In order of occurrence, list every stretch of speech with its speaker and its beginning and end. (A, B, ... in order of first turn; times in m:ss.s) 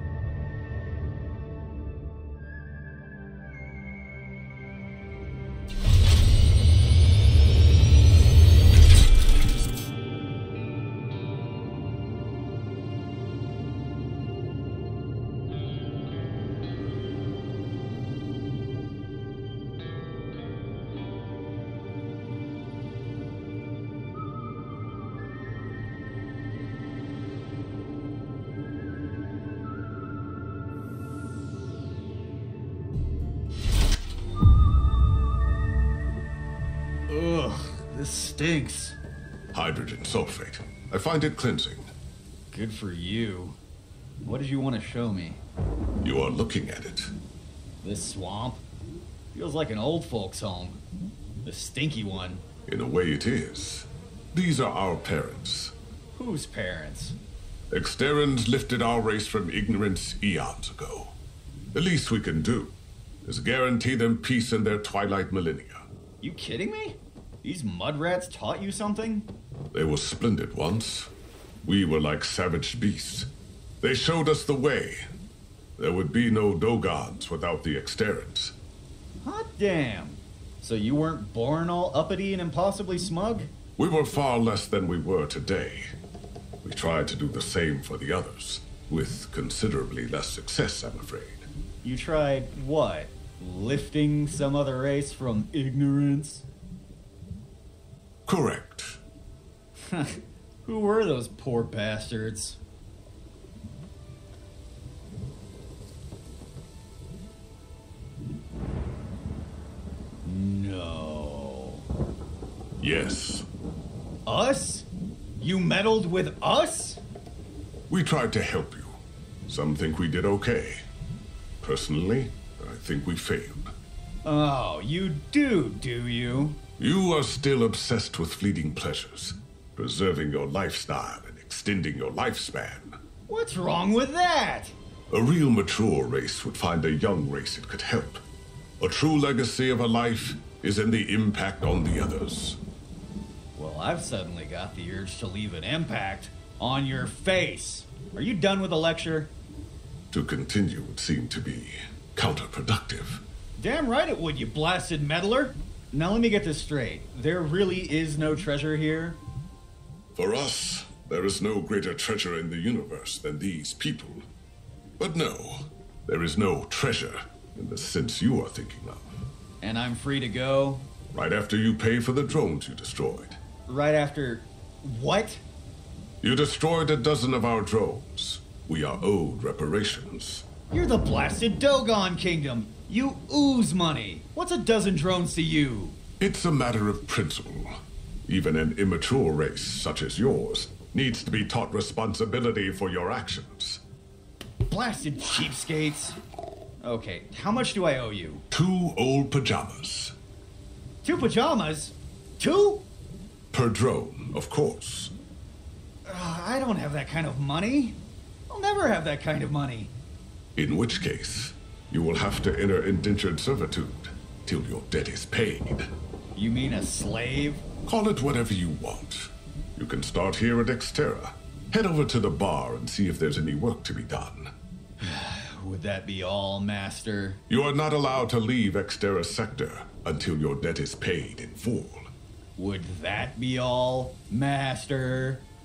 0:37.1-0:39.0 A
0:39.5-0:41.9 B
0:42.5-0:43.6 A
0:44.2-0:45.4 A
0:46.0-0:47.1 B
0:47.8-0:48.6 A
0:49.3-0:50.8 A
0:51.4-0:52.4 A
0:52.7-0:55.7 B
0:56.2-0:57.2 A
0:57.7-1:01.2 B
1:01.7-1:05.9 B
1:06.2-1:09.3 A
1:09.7-1:11.1 B
1:11.6-1:13.3 B
1:13.8-1:15.0 B
1:15.8-1:18.5 B
1:19.2-1:23.5 A
1:23.8-1:25.9 B
1:26.6-1:31.4 B
1:31.8-1:36.4 A
1:38.2-1:39.0 B
1:39.8-1:42.6 A
1:50.2-1:51.8 A
1:52.8-1:53.4 B
1:54.2-1:54.9 A
1:55.4-1:57.0 A
1:57.9-2:00.8 B
2:01.6-2:03.7 B
2:04.2-2:06.6 A
2:06.8-2:13.0 B
2:13.3-2:14.7 A
2:15.1-2:18.2 B
2:18.8-2:22.6 B
2:23.5-2:29.3 A
2:30.1-2:33.2 B
2:33.6-2:39.2 A
2:40.1-2:44.2 B
2:45.0-2:49.2 B
2:49.6-2:50.9 A
2:51.1-2:53.4 B
2:53.7-2:55.4 A
2:56.2-3:00.5 B
3:00.7-3:06.0 A
3:06.2-3:13.8 B
3:14.7-3:16.2 A
3:16.8-3:18.4 A
3:18.5-3:20.1 B
3:21.0-3:22.8 A
3:23.5-3:25.1 B
3:26.0-3:29.9 A
3:30.5-3:35.8 B
3:36.4-3:37.7 A
3:37.8-3:44.5 B
3:45.0-3:47.4 A
3:47.5-3:52.1 B
3:52.6-3:55.4 A